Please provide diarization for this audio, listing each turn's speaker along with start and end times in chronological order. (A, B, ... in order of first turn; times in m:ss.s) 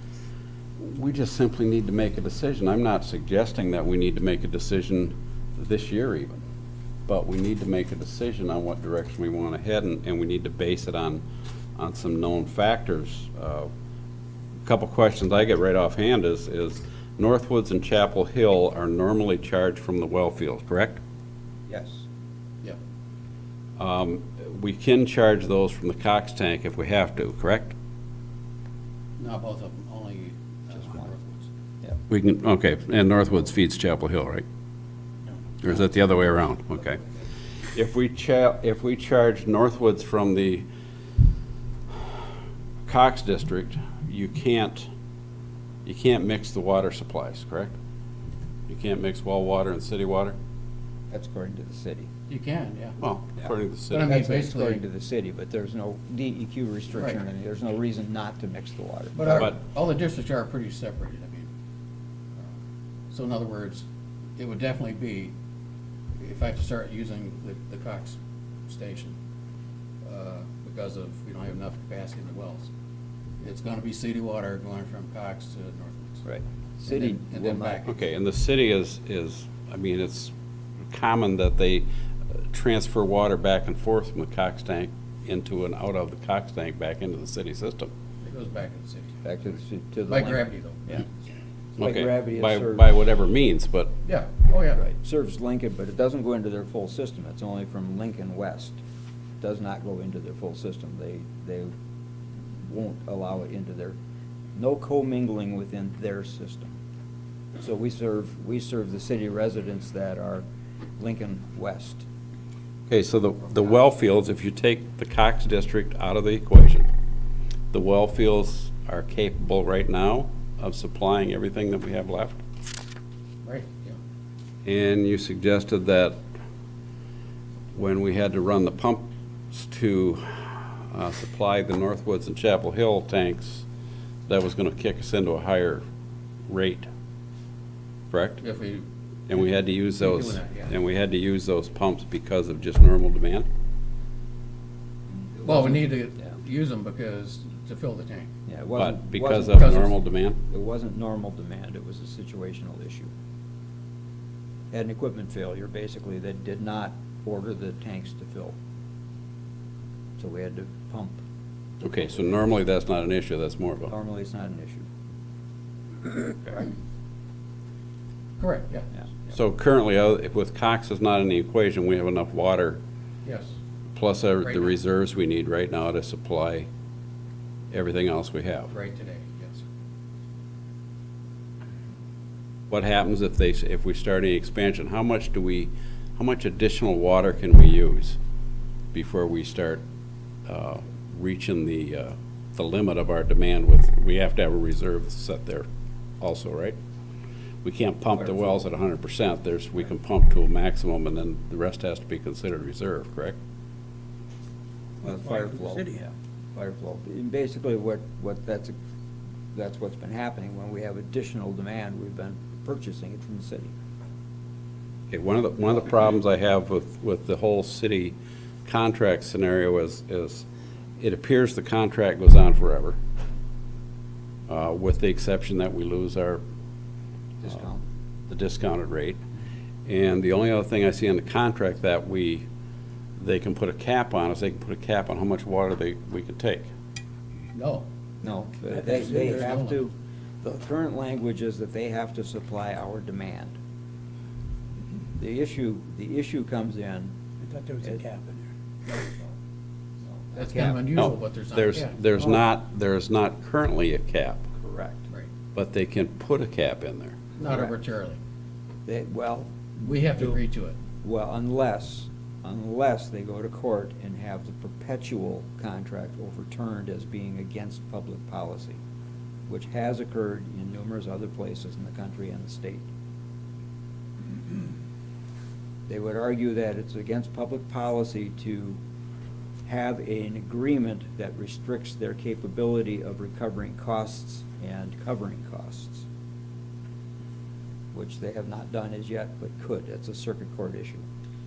0:00.8-0:06.4 A
0:07.1-0:11.2 A
0:11.8-0:13.7 A
0:14.6-0:21.0 A
0:21.7-0:22.0 B
0:23.8-0:27.8 A
0:29.2-0:31.5 C
0:32.1-0:34.4 A
0:35.6-0:37.0 A
0:37.7-0:40.6 A
0:42.8-0:44.9 A
0:45.8-0:47.8 A
0:48.7-0:50.4 A
0:51.1-0:52.1 B
0:52.3-0:53.0 C
0:53.0-0:54.2 A
0:53.4-0:59.5 B
0:53.9-0:54.8 C
0:56.9-0:57.2 C
0:59.1-1:01.5 C
1:03.1-1:03.8 C
1:04.4-1:05.3 C
1:06.2-1:09.2 C
1:10.0-1:12.7 C
1:13.4-1:16.2 C
1:16.2-1:17.9 B
1:16.8-1:17.9 C
1:17.8-1:20.3 A
1:20.9-1:21.8 A
1:22.5-1:27.9 A
1:28.2-1:29.2 C
1:29.2-1:31.1 B
1:30.1-1:30.8 C
1:31.8-1:32.9 B
1:31.8-1:34.0 A
1:34.0-1:34.8 C
1:34.8-1:38.8 B
1:39.4-1:41.7 B
1:42.6-1:44.0 B
1:44.6-1:46.8 B
1:47.6-1:50.4 B
1:51.0-1:52.0 B
1:52.9-1:56.9 A
1:57.7-2:02.4 A
2:03.4-2:04.0 C
2:04.6-2:06.2 A
2:07.7-2:13.6 A
2:14.3-2:15.8 A
2:16.5-2:16.9 A
2:18.1-2:18.4 A
2:18.4-2:18.8 C
2:19.3-2:23.5 A
2:20.0-2:20.7 C
2:25.4-2:25.8 B
2:25.4-2:28.3 C
2:28.5-2:33.1 B
2:28.8-2:30.4 A
2:29.5-2:29.9 C
2:34.7-2:38.6 B
2:40.2-2:41.2 B
2:41.8-2:43.9 A
2:43.8-2:44.9 B
2:46.3-2:46.7 B
2:48.4-2:48.9 C
2:49.3-2:52.8 A
2:53.2-2:53.5 C
2:53.9-2:56.7 A
2:57.7-2:58.7 A
2:58.7-2:59.6 C
3:02.7-3:08.2 A
3:08.9-3:09.8 A
3:10.4-3:15.7 A
3:16.2-3:16.8 A
3:17.6-3:23.4 A
3:25.0-3:28.8 B
3:25.0-3:26.0 D
3:29.5-3:33.7 B
3:35.1-3:40.5 A
3:41.0-3:43.0 A
3:44.5-3:46.4 A
3:47.4-3:47.8 B
3:48.3-3:49.2 A
3:49.8-3:52.4 A
3:53.2-3:56.7 A
3:57.5-3:57.9 C
3:58.2-4:03.6 B
3:58.7-3:59.5 D
3:58.8-3:59.8 C
4:05.1-4:07.1 B
4:07.4-4:08.5 D
4:10.3-4:10.9 B
4:10.4-4:12.0 C
4:10.9-4:14.5 A
4:14.6-4:15.1 B
4:15.5-4:17.2 A
4:17.4-4:18.2 C
4:17.4-4:17.7 B
4:18.8-4:20.4 B
4:19.8-4:20.8 C
4:21.0-4:28.8 B
4:29.5-4:32.9 B
4:35.9-4:38.8 B
4:39.6-4:46.0 B
4:47.9-4:51.0 B